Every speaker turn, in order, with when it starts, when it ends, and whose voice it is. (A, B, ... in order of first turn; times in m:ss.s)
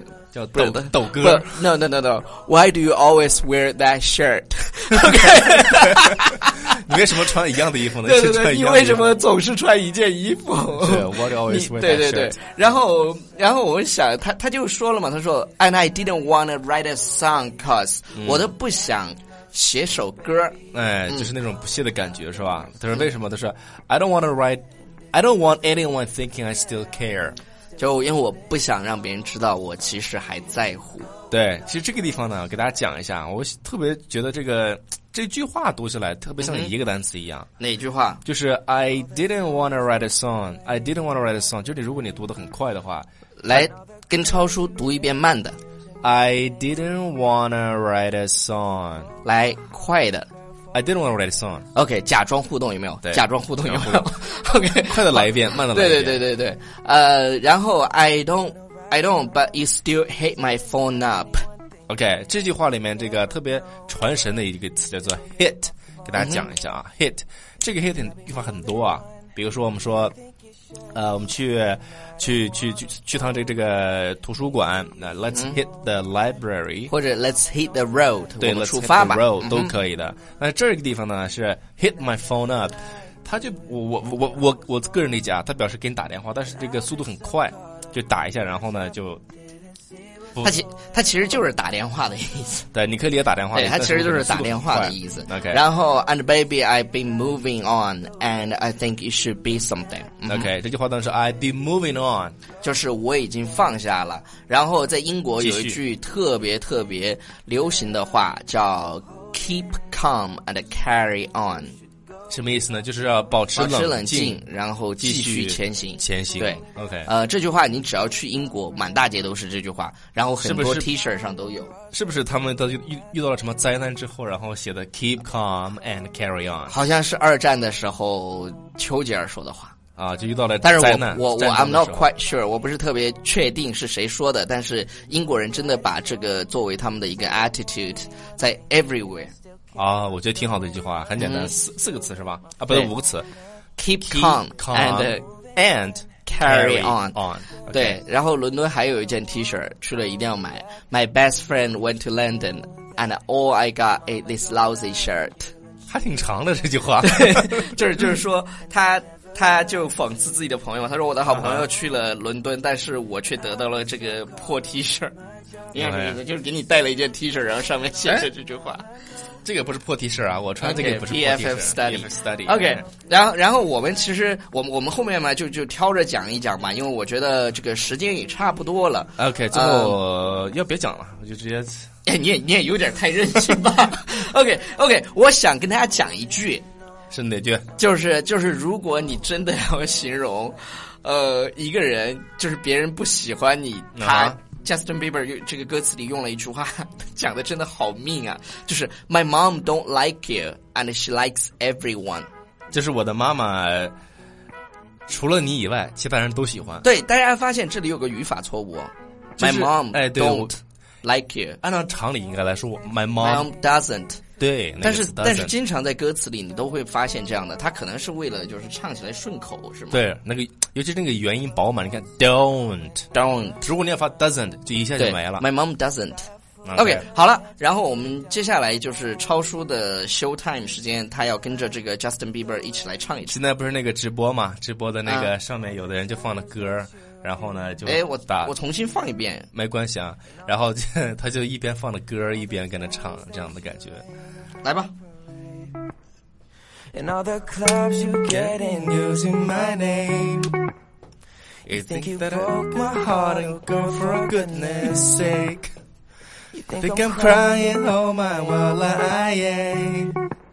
0:00.3-0:01.6 A
0:00.6-0:07.2 B
0:05.7-0:09.2 A
0:08.0-0:21.3 B
0:10.8-0:12.4 A
0:18.2-0:18.5 A
0:20.7-0:27.4 A
0:27.8-0:31.1 B
0:31.3-0:37.5 A
0:36.4-0:36.7 B
0:37.6-0:38.2 B
0:38.2-0:43.7 A
0:43.4-0:45.6 B
0:46.0-0:49.1 A
0:49.2-0:50.3 B
0:50.7-0:51.6 A
0:51.8-1:01.4 B
0:53.0-0:54.1 A
0:54.8-0:56.2 A
1:01.9-1:10.1 A
1:06.2-1:06.4 B
1:10.9-1:16.9 A
1:15.3-1:15.6 B
1:16.9-1:19.8 B
1:18.4-1:29.2 A
1:30.4-1:32.7 B
1:32.7-1:35.6 A
1:33.5-1:40.5 B
1:40.3-1:42.4 A
1:42.6-1:51.7 B
1:45.4-1:45.8 A
1:52.3-1:54.4 A
1:53.5-2:01.8 B
1:55.0-1:57.1 A
2:00.4-2:00.9 A
2:01.9-2:06.8 A
2:06.7-2:09.8 B
2:10.0-2:12.0 A
2:10.6-2:19.3 B
2:19.8-2:23.3 A
2:21.2-2:21.5 B
2:23.8-2:25.2 B
2:24.0-2:28.0 A
2:26.2-2:27.2 B
2:27.7-2:35.5 B
2:35.9-2:37.8 A
2:37.0-2:45.1 B
2:41.3-2:41.7 A
2:45.7-2:48.8 B
2:45.7-2:46.2 A
2:49.4-2:52.8 A
2:50.6-3:00.0 B
2:59.2-3:01.9 A
3:02.0-3:06.6 B
3:07.1-3:07.6 A
3:07.8-3:22.3 B
3:14.0-3:14.4 A
3:22.7-3:23.9 A
3:25.1-3:26.8 A
3:26.8-3:31.6 B
3:29.4-3:30.5 A
3:31.6-3:33.5 A
3:33.2-3:34.2 B
3:34.4-3:35.5 A
3:34.8-3:40.0 B
3:39.9-3:43.0 A
3:43.1-3:43.6 B
3:43.6-3:45.4 A
3:45.0-3:53.4 B
3:46.6-3:47.0 A
3:53.3-3:58.5 A
3:55.0-3:55.3 B
3:57.8-3:59.5 B
3:59.5-4:04.0 A
4:04.6-4:04.9 B
4:06.9-4:09.3 C
4:08.3-4:10.6 A
4:11.6-4:15.8 A
4:11.7-4:15.1 C
4:16.5-4:17.5 C
4:16.8-4:20.2 A